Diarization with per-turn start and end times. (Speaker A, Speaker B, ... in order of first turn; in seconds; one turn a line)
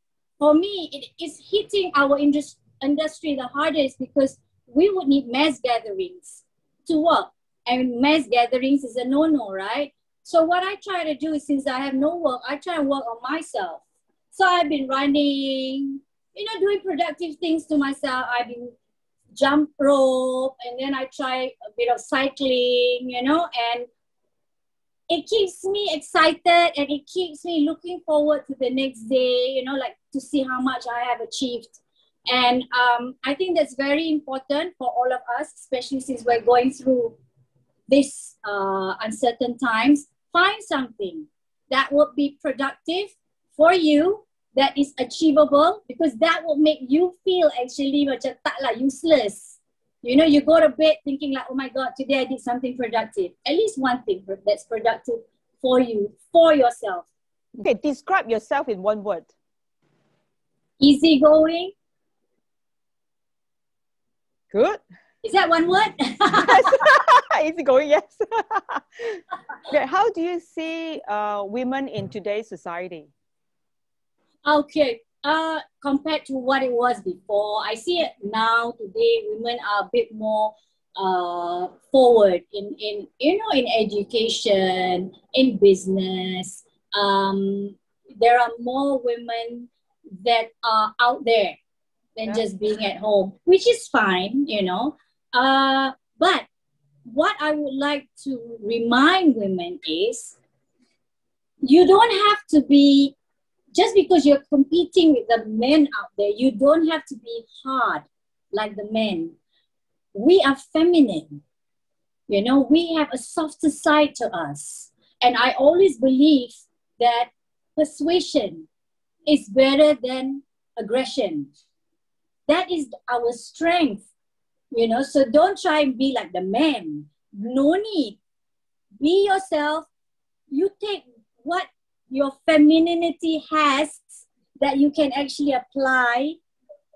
Speaker A: 0.4-18.7
Speaker A: 19.4-23.9
Speaker A: 25.1-37.2
Speaker A: 37.9-57.1
Speaker B: 57.6-59.3
Speaker A: 60.8-61.7
Speaker B: 64.5-64.8
Speaker A: 65.2-66.8
Speaker B: 66.4-73.1
Speaker A: 74.5-91.6
Speaker A: 92.2-96.5
Speaker A: 97.1-100.4
Speaker A: 101.6-103.2
Speaker A: 103.7-109.4
Speaker A: 110.2-111.4
Speaker A: 112.3-118.7
Speaker A: 119.3-121.5
Speaker A: 122.5-124.1
Speaker A: 124.7-128.2
Speaker A: 129.0-129.9
Speaker A: 130.5-136.4